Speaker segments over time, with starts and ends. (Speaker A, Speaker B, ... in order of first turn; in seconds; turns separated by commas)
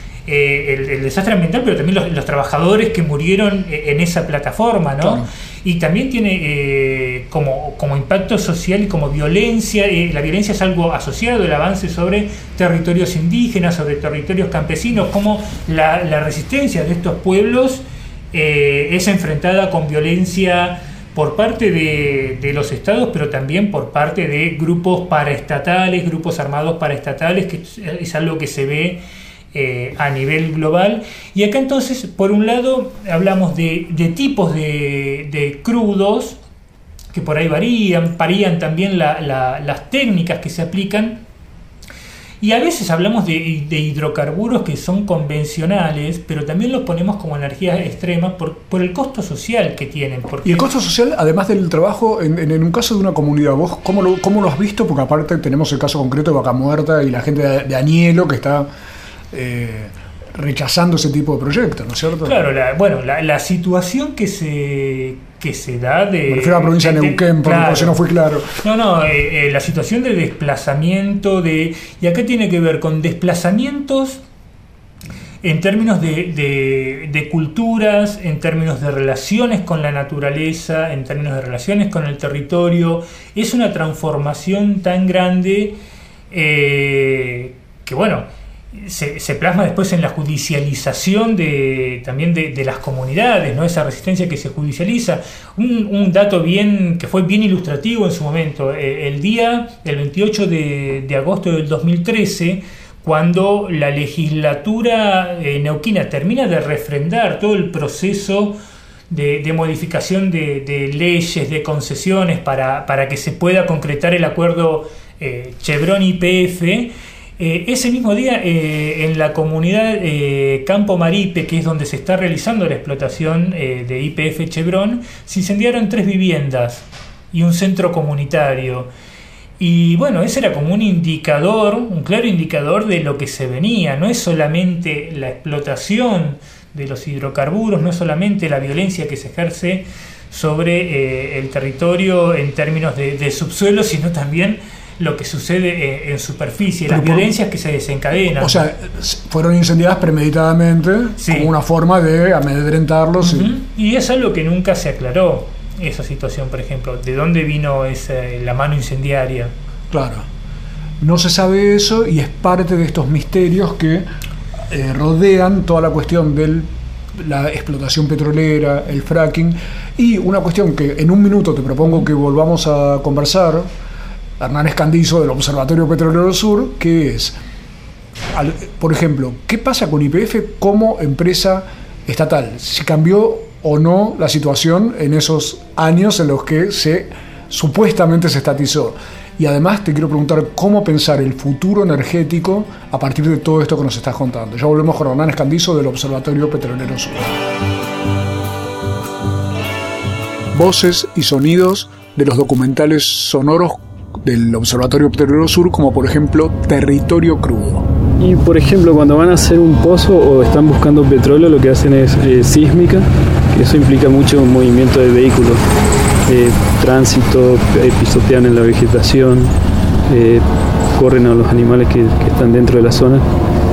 Speaker A: 0.3-29.0, Speaker B: 5.0-5.3, Speaker A: 29.5-36.4, Speaker A: 37.1-41.2, Speaker A: 42.4-50.7, Speaker B: 50.5-58.7, Speaker B: 59.3-62.4, Speaker A: 62.2-68.0, Speaker B: 66.3-68.5, Speaker A: 68.6-74.2, Speaker A: 75.4-85.8, Speaker A: 86.3-108.6, Speaker A: 109.1-128.9, Speaker A: 129.6-148.6, Speaker B: 146.9-147.3, Speaker B: 148.4-153.5, Speaker A: 151.2-151.5, Speaker A: 153.2-159.5, Speaker B: 159.9-160.3, Speaker B: 161.0-164.1, Speaker B: 164.7-173.7, Speaker B: 174.4-177.4, Speaker B: 178.3-197.3, Speaker B: 200.5-207.9, Speaker C: 208.2-215.6, Speaker C: 216.3-219.5, Speaker C: 220.1-223.3